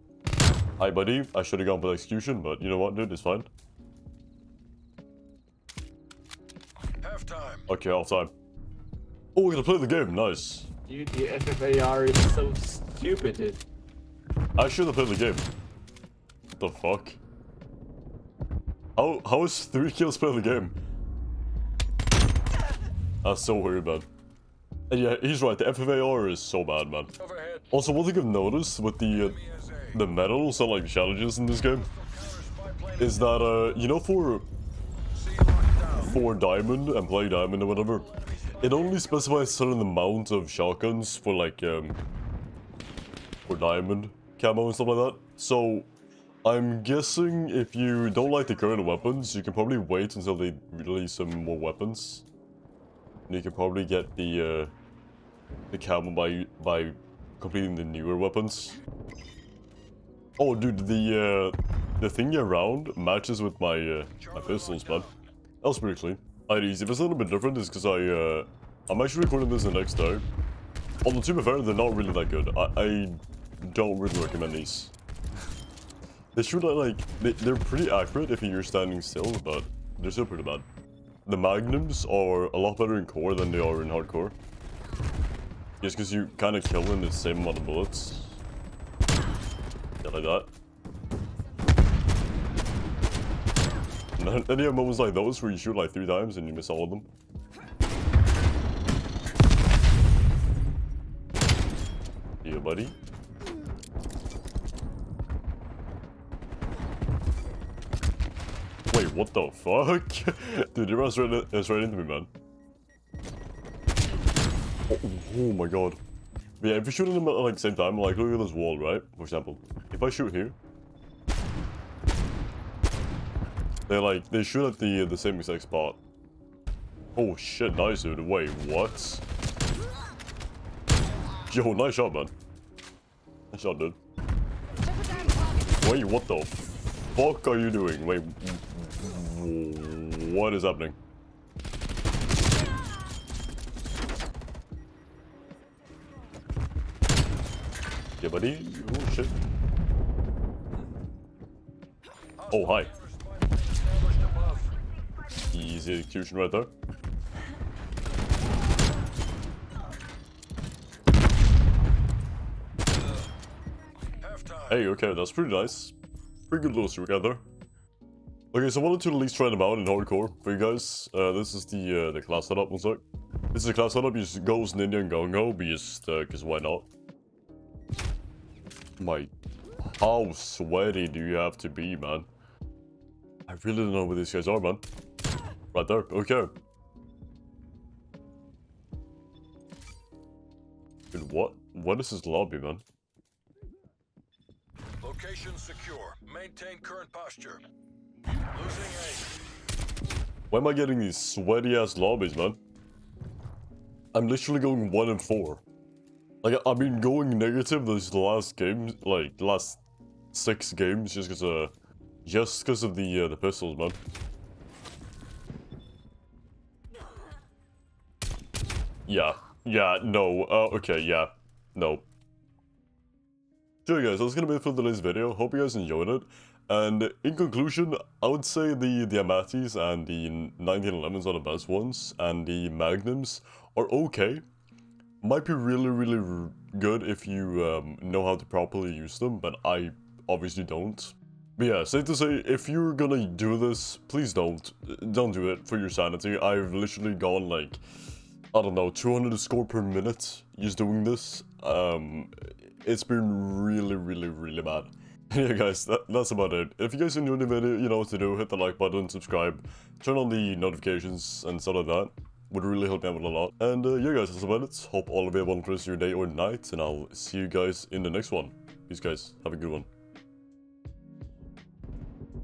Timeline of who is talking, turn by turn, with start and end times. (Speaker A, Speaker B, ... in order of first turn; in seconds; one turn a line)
Speaker A: 0.8-3.5
Speaker B: 7.0-7.7
Speaker A: 7.7-8.3
Speaker A: 9.3-10.7
Speaker C: 10.9-13.6
Speaker A: 14.6-15.5
Speaker A: 16.6-17.2
Speaker A: 19.0-20.8
Speaker A: 23.2-24.1
Speaker A: 24.9-27.1
Speaker B: 27.2-27.7
Speaker A: 27.7-29.4
Speaker B: 29.2-30.0
Speaker A: 29.9-31.9
Speaker B: 31.9-33.7
Speaker A: 33.0-34.5
Speaker B: 35.1-36.1
Speaker A: 36.0-38.1
Speaker B: 37.8-39.3
Speaker A: 38.6-42.0
Speaker A: 43.5-45.9
Speaker A: 46.5-52.2
Speaker A: 53.3-54.7
Speaker A: 55.7-58.8
Speaker A: 60.4-65.1
Speaker B: 64.2-65.1
Speaker A: 65.6-70.3
Speaker A: 71.0-74.9
Speaker A: 76.3-80.7
Speaker A: 81.3-84.4
Speaker A: 85.8-88.4
Speaker A: 90.0-90.5
Speaker A: 94.2-97.1
Speaker A: 102.4-103.0
Speaker A: 108.9-112.3
Speaker A: 114.9-116.0
Speaker A: 116.6-120.6
Speaker A: 123.9-126.0
Speaker A: 127.2-129.2
Speaker A: 131.5-132.3
Speaker A: 133.5-134.0
Speaker A: 135.7-136.6
Speaker A: 137.1-141.0
Speaker A: 148.2-149.3
Speaker B: 152.4-154.7
Speaker A: 152.5-152.9
Speaker A: 155.4-156.7
Speaker B: 164.1-164.7
Speaker A: 164.7-165.9
Speaker A: 166.5-167.4
Speaker A: 168.5-176.9
Speaker A: 179.0-179.3
Speaker A: 179.9-182.3
Speaker A: 183.5-184.9
Speaker A: 185.7-186.5
Speaker A: 191.1-192.8
Speaker B: 195.0-197.6
Speaker B: 198.4-199.4
Speaker A: 200.5-202.6
Speaker A: 204.1-205.6
Speaker A: 206.4-211.7
Speaker A: 212.2-214.0
Speaker A: 219.1-222.1
Speaker A: 223.8-234.4
Speaker A: 235.2-247.8
Speaker A: 248.5-269.9